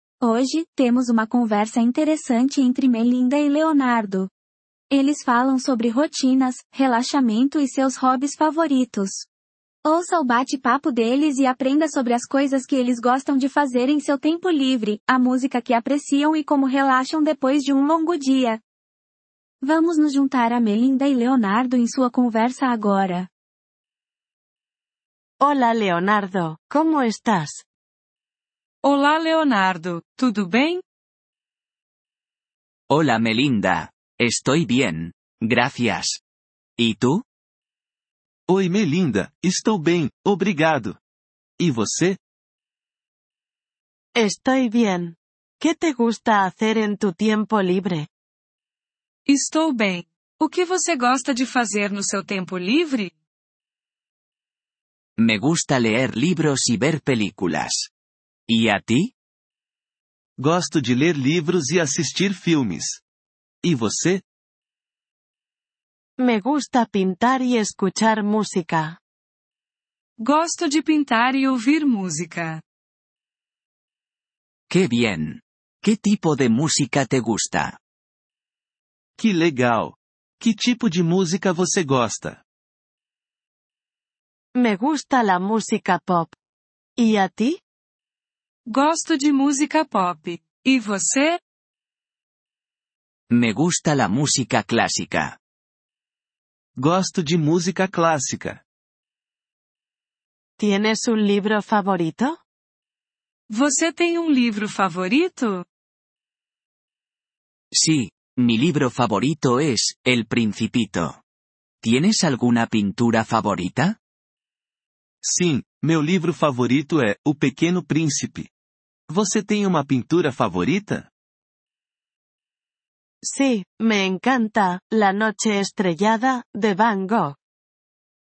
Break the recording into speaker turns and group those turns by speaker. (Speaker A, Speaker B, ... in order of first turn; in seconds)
Speaker A: 0.2-4.3, 4.9-9.3, 9.8-18.6, 19.6-23.3
Speaker B: 25.4-27.6, 44.1-48.1, 66.2-69.0, 84.5-86.3, 87.0-87.6, 100.6-102.4, 123.2-127.3
Speaker C: 28.8-30.8, 49.3-53.1, 70.2-72.6, 88.7-91.4, 103.5-105.6
Speaker D: 32.9-36.2, 36.8-37.2, 55.2-57.9, 58.5-59.1, 74.7-77.8, 93.3-95.3, 107.7-111.2, 111.8-114.0
Speaker E: 38.5-41.0, 41.6-42.2, 60.4-63.0, 63.6-64.2, 79.2-82.4, 96.8-98.6, 115.2-118.5, 119.1-121.1